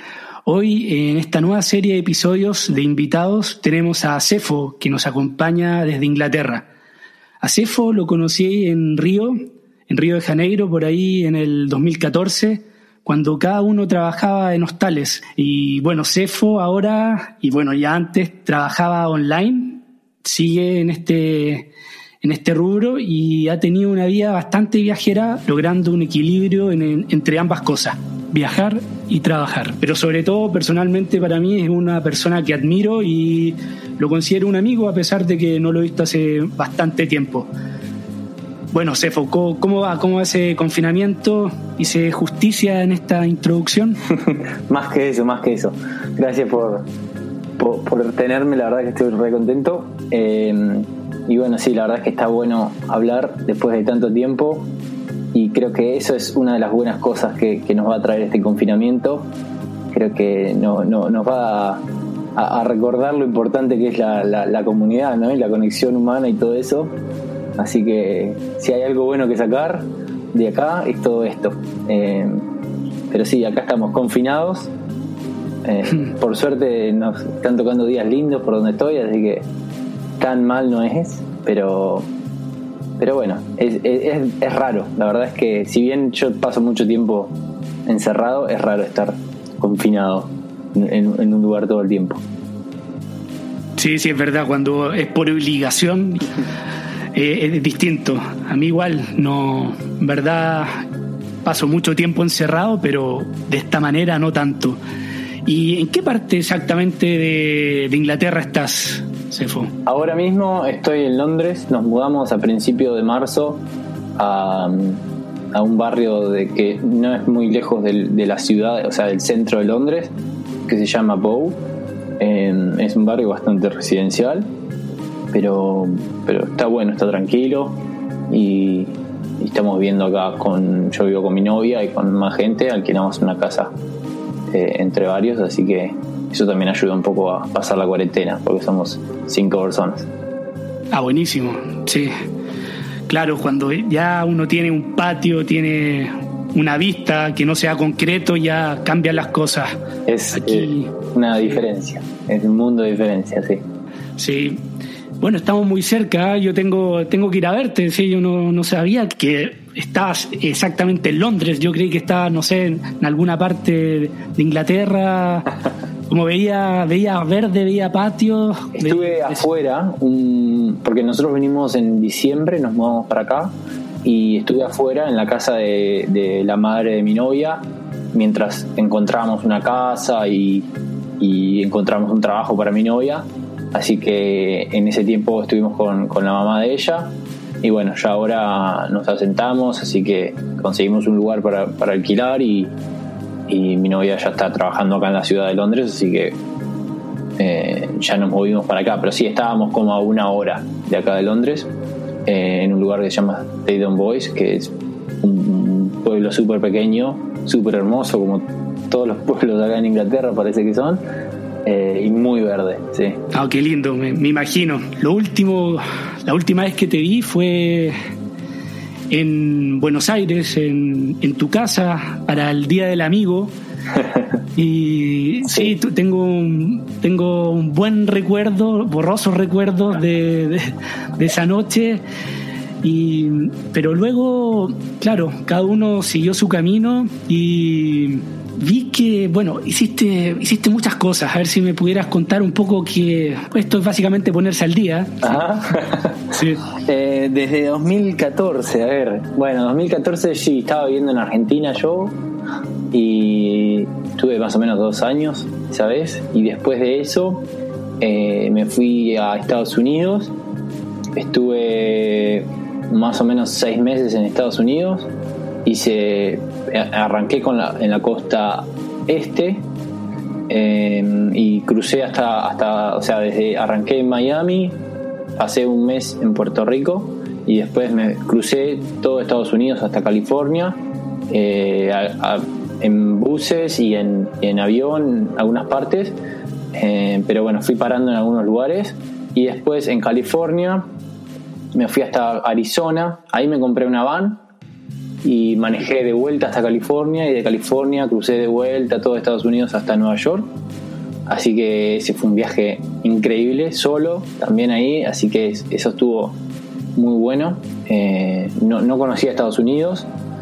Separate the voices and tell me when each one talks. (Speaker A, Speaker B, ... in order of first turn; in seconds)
Speaker A: 0.4-6.7, 7.4-21.7, 22.2-37.5, 38.7-44.0, 93.8-96.3, 97.1-100.8, 101.4-104.8, 105.4-109.7, 140.9-142.1, 143.1-149.7, 150.3-150.9, 154.2-154.6, 155.2-165.5, 166.1-169.4, 213.3-217.9, 219.1-223.5, 224.5-232.0, 232.8-245.3, 246.3-246.6
Speaker B: 44.1-46.9, 47.6-54.7, 55.3-59.3, 59.9-61.8, 62.4-66.9, 67.6-72.5, 73.1-74.7, 75.6-79.4, 80.2-82.1, 83.0-87.3, 87.8-92.2, 109.8-113.6, 114.2-115.0, 115.5-120.1, 120.7-121.6, 122.2-124.5, 125.3-133.7, 134.5-140.1, 150.1-153.6, 168.7-173.5, 174.0-192.7, 193.5-196.4, 197.4-201.7, 202.2-211.0, 211.6-213.2, 225.4-225.7, 245.2-252.1, 252.9-257.4, 258.0-260.3, 261.1-265.1, 265.6-269.6, 270.5-274.8, 275.4-280.8, 281.3-286.2, 286.7-290.9, 291.7-294.4, 295.2-300.5, 301.3-306.4, 306.9-310.1